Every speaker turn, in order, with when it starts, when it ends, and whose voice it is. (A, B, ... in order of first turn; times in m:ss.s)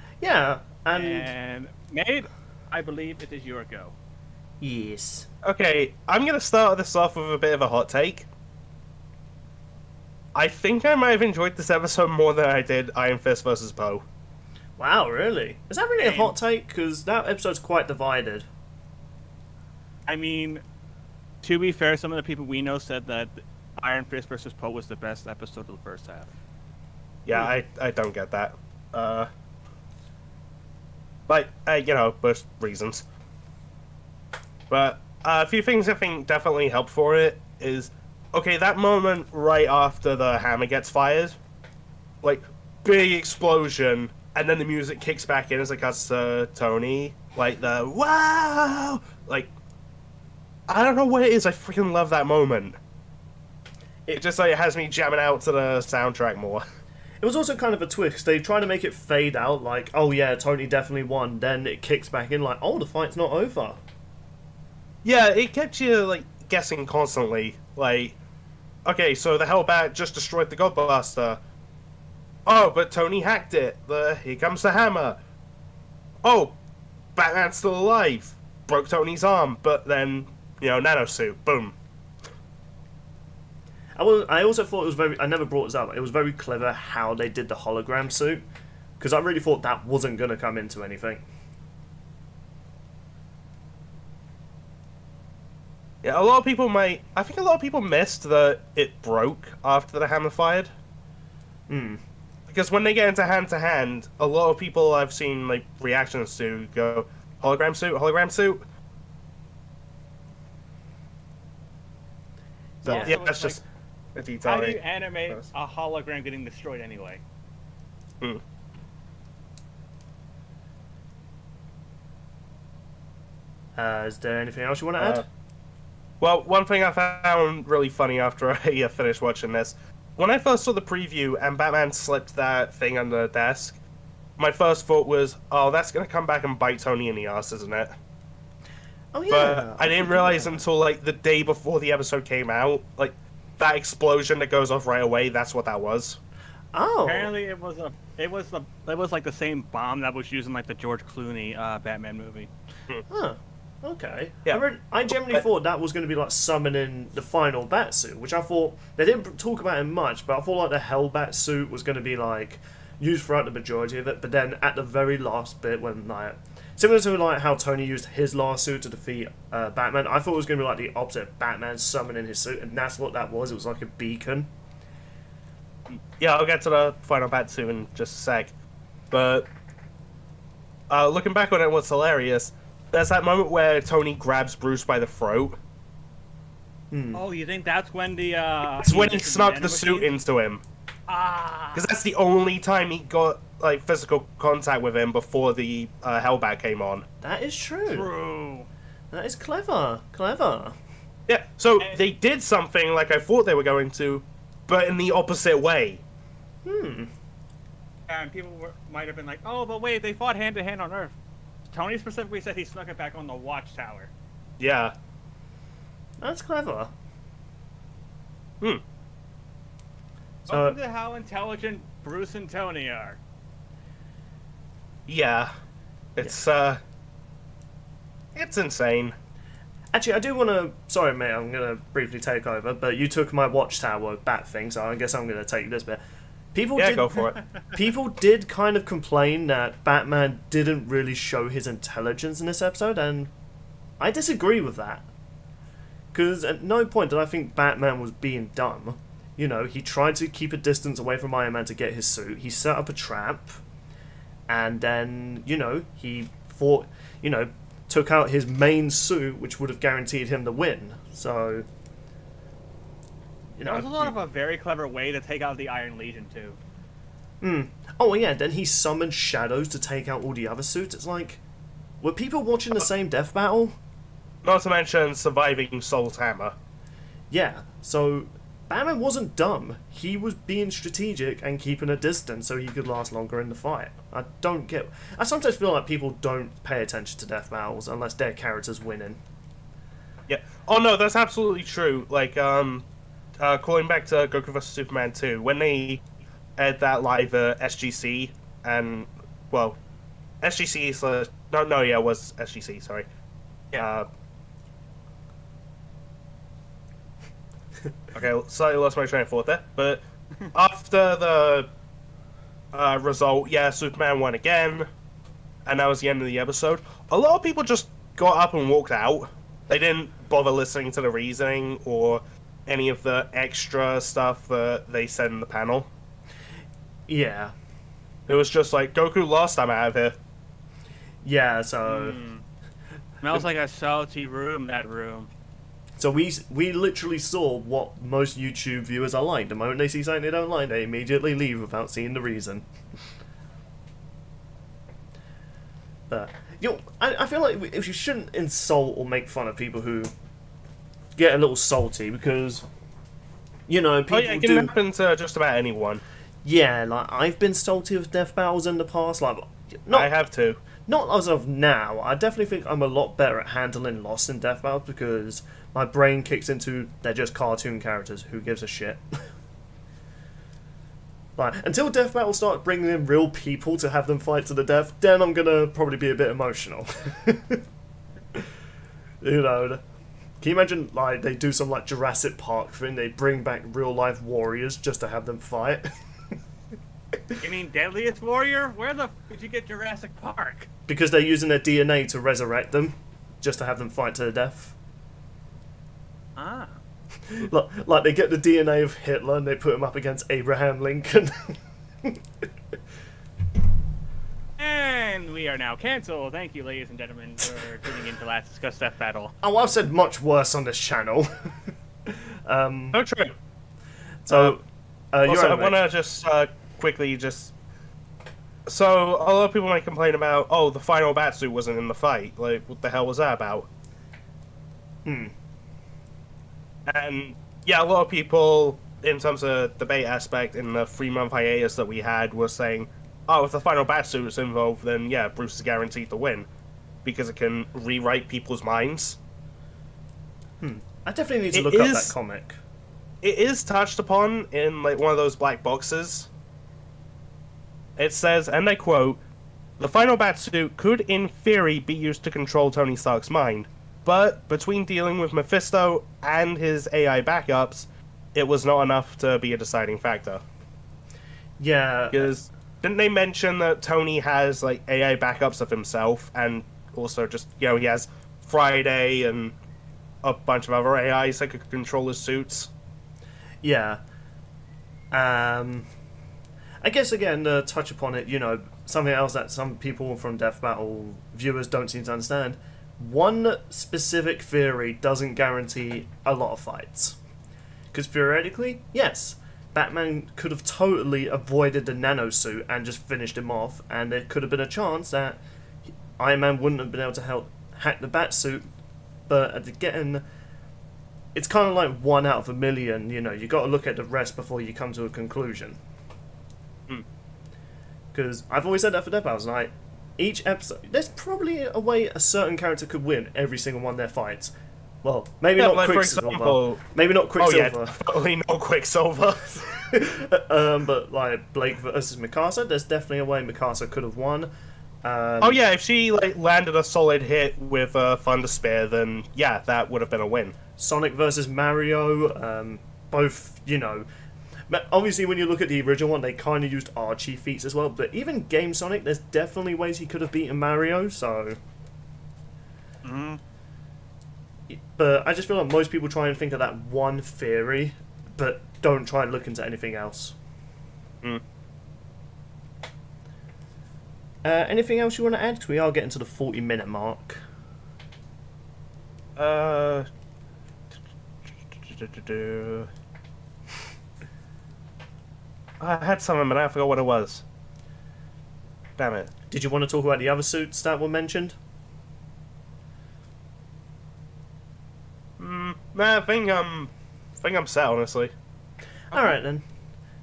0:00.2-0:01.3 A
0:00.9-0:04.0 B
0:04.6-0:05.3 A
0:05.4-0:08.3 C
0:10.4-0:14.0 C
0:14.8-0:18.5 A
0:16.0-0:16.4 B
0:20.1-0:20.6 B
0:21.4-0:26.3 B
0:27.3-0:29.3 C
0:31.3-0:33.0 C
0:34.7-0:41.4 C
0:42.2-0:49.5 C
0:50.7-0:52.8 C
0:54.1-0:56.6 C
0:57.2-1:03.8 A
1:05.0-1:08.2 C
1:08.8-1:11.4 C
1:12.5-1:15.2 C
1:16.2-1:16.6 C
1:17.2-1:21.8 C
1:24.0-1:28.4 A
1:29.0-1:31.2 A
1:36.0-1:40.7 C
1:41.7-1:42.0 A
1:42.5-1:48.6 C
1:52.8-1:53.2 A
1:52.8-1:53.6 B
1:53.0-1:53.6 C
1:54.2-1:55.4 C
1:54.4-1:57.2 B
2:03.8-2:05.2 A
2:05.0-2:05.2 C
2:06.2-2:13.8 C
2:14.4-2:18.0 C
2:19.1-2:20.6 A
2:19.3-2:26.2 C
2:26.7-2:27.3 A
2:27.0-2:32.5 B
2:33.1-2:54.5 A
2:34.5-2:35.4 C
2:55.9-2:58.5 C
2:59.1-2:59.5 C
3:00.9-3:05.6 C
3:06.9-3:07.2 A
3:07.1-3:10.1 B
3:08.6-3:10.6 C
3:11.1-3:11.9 B
3:11.8-3:17.0 C
3:17.2-3:18.1 A
3:17.9-3:18.7 B
3:19.1-3:20.8 A
3:21.3-3:26.0 C
3:21.8-3:22.1 B
3:26.6-3:27.1 A
3:28.1-3:31.2 B
3:31.7-3:34.1 B
3:34.6-3:34.9 C
3:36.2-3:36.9 A
3:40.5-3:40.8 A
3:40.5-3:43.2 B
3:45.1-3:45.5 C
3:46.2-3:46.8 C
3:48.4-3:49.2 C
3:49.9-3:56.0 A
3:56.5-3:57.2 A
3:56.8-3:57.4 C
3:57.7-4:03.3 A
4:04.0-4:05.1 A
4:06.1-4:13.6 A
4:14.5-4:21.7 A
4:23.6-4:24.2 A
4:23.6-4:26.6 B
4:27.4-4:31.4 A
4:32.0-4:33.8 A
4:34.4-4:36.6 C
4:37.3-4:49.2 A
4:50.3-4:52.9 C
4:53.4-4:56.0 C
4:56.6-4:59.8 C
5:00.4-5:03.1 C
5:03.7-5:04.1 C
5:08.1-5:11.7 C
5:12.7-5:14.9 C
5:15.7-5:25.9 C
5:27.1-5:27.5 A
5:28.3-5:30.2 C
5:31.2-5:32.2 A
5:31.8-5:32.4 B
5:33.2-5:35.3 B
5:36.0-5:42.7 A
5:46.1-5:50.1 A
5:51.2-5:52.6 A
5:53.7-5:54.7 A
5:54.1-5:56.0 C
5:56.4-6:00.1 A
5:59.9-6:00.6 C
6:00.8-6:09.0 A
6:11.4-6:17.6 A
6:19.2-6:19.8 A
6:20.4-6:25.9 A
6:27.4-6:30.7 B
6:30.9-6:34.8 A
6:36.4-6:36.8 B
6:37.3-6:42.2 A
6:44.6-6:49.3 B
6:49.4-6:51.5 A
6:52.1-6:53.0 A
6:52.9-6:53.4 C
6:54.2-6:55.8 A
6:54.3-6:54.6 C
6:55.2-6:57.5 C
6:58.7-7:03.7 C
7:05.1-7:05.3 A
7:06.9-7:16.5 C
7:17.0-7:19.2 C
7:20.6-7:22.6 A
7:21.5-7:22.2 C
7:23.2-7:26.3 C
7:28.0-7:29.2 C
7:29.8-7:40.4 C
7:41.6-7:42.3 A
7:42.1-7:49.6 C
7:50.2-7:52.7 C
7:53.6-7:54.0 A
7:55.1-7:55.9 A
7:56.8-8:07.2 A
8:07.9-8:15.4 A
8:16.2-8:18.7 A
8:19.3-8:20.2 A
8:21.4-8:25.8 A
8:28.1-8:38.0 A
8:35.6-8:36.8 C
8:37.4-8:39.8 C
8:39.9-8:44.5 A
8:45.0-8:45.6 A
8:45.4-8:50.6 C
8:50.8-8:54.1 A
8:54.7-9:01.6 A
9:03.0-9:03.4 B
9:04.7-9:10.4 A
9:14.4-9:17.4 A
9:19.4-9:20.1 C
9:21.4-9:22.9 C
9:25.8-9:27.4 C
9:29.0-9:29.3 C
9:29.5-9:31.6 A
9:35.4-9:38.3 C
9:39.1-9:39.6 A